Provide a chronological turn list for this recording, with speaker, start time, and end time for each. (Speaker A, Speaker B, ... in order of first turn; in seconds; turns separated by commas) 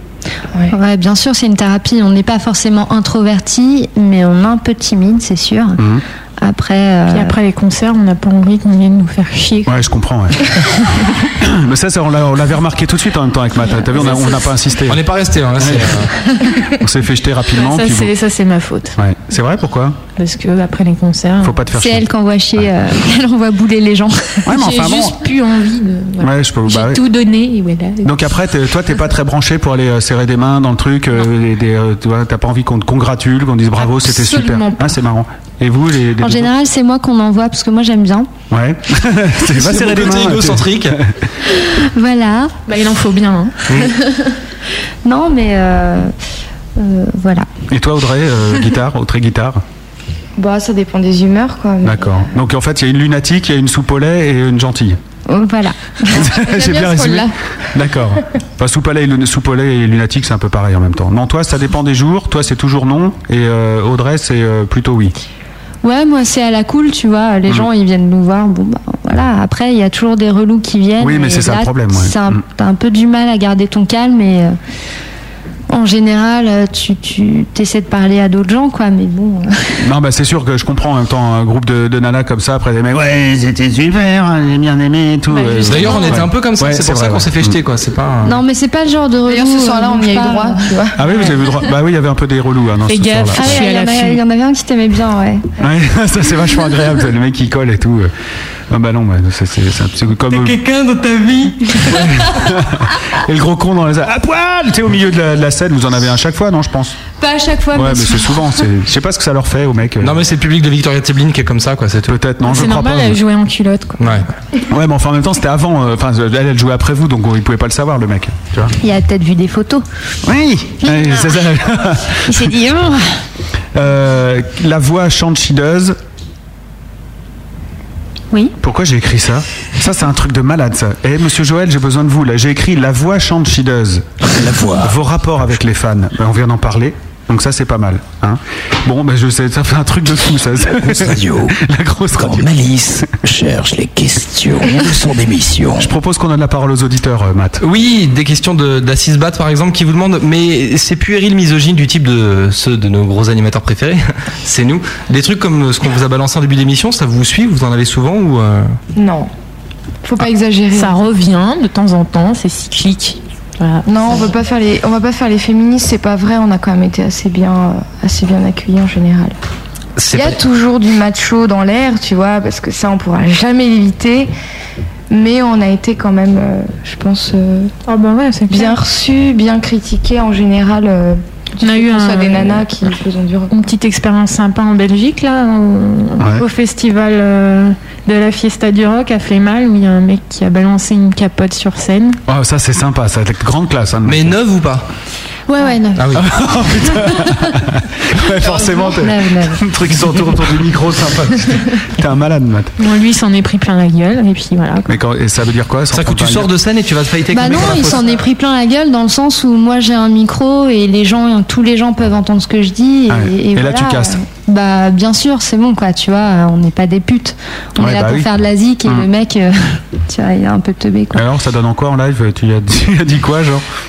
Speaker A: 0.7-5.8, Speaker B: 5.8-6.0, Speaker A: 6.4-7.3, Speaker C: 7.1-9.8, Speaker B: 9.7-10.6, Speaker B: 11.3-15.0, Speaker D: 14.9-16.1, Speaker B: 15.6-16.1, Speaker B: 16.7-18.1, Speaker C: 17.5-19.0, Speaker B: 19.0-20.0, Speaker C: 20.2-21.7, Speaker B: 21.4-22.1, Speaker A: 21.7-24.5, Speaker B: 24.5-25.2, Speaker C: 24.5-28.2, Speaker B: 26.2-27.1, Speaker B: 28.0-36.5, Speaker C: 33.8-34.9, Speaker A: 36.2-38.3, Speaker B: 38.5-41.2, Speaker D: 39.5-41.0, Speaker A: 41.6-42.6, Speaker C: 42.7-43.6, Speaker D: 43.7-43.9, Speaker A: 45.0-46.1, Speaker A: 46.8-47.5, Speaker B: 47.7-49.6, Speaker E: 50.4-52.3, Speaker B: 51.8-55.0, Speaker A: 55.3-56.5, Speaker B: 56.1-65.2, Speaker A: 65.8-74.6, Speaker B: 71.0-72.4, Speaker A: 75.7-79.8, Speaker B: 79.8-87.6, Speaker C: 85.3-86.2, Speaker D: 85.7-88.4, Speaker A: 88.2-90.7, Speaker E: 89.3-91.0, Speaker B: 91.0-93.6, Speaker C: 92.9-94.2, Speaker A: 93.3-95.5, Speaker B: 95.6-98.1, Speaker B: 98.7-100.6, Speaker B: 101.9-107.0, Speaker A: 107.3-107.7, Speaker B: 107.7-110.2, Speaker D: 110.0-112.2, Speaker B: 112.1-113.2, Speaker C: 112.4-114.3, Speaker D: 114.0-114.3, Speaker B: 114.7-118.7, Speaker A: 118.8-119.8, Speaker B: 120.2-122.5, Speaker A: 120.8-121.2, Speaker A: 122.3-123.0, Speaker B: 123.7-126.0, Speaker B: 128.6-142.7, Speaker F: 134.4-134.9, Speaker F: 140.8-141.5, Speaker F: 142.2-145.9, Speaker B: 145.8-147.6, Speaker D: 147.6-158.8, Speaker E: 159.0-159.3, Speaker E: 160.0-161.0, Speaker C: 160.7-164.3, Speaker E: 163.9-169.4, Speaker D: 170.0-170.4, Speaker E: 170.1-174.3, Speaker E: 175.1-177.7, Speaker C: 177.9-178.8, Speaker E: 178.5-183.6, Speaker C: 181.6-182.6, Speaker C: 183.5-192.2, Speaker B: 186.2-186.4, Speaker B: 192.3-194.4, Speaker D: 194.1-194.9, Speaker C: 195.5-195.9, Speaker D: 196.0-196.3, Speaker B: 196.1-202.7, Speaker A: 198.4-199.7, Speaker C: 202.8-205.0, Speaker B: 204.9-206.5, Speaker D: 205.9-208.2, Speaker A: 207.3-221.2, Speaker B: 213.1-214.2, Speaker B: 217.8-218.3, Speaker B: 221.1-223.6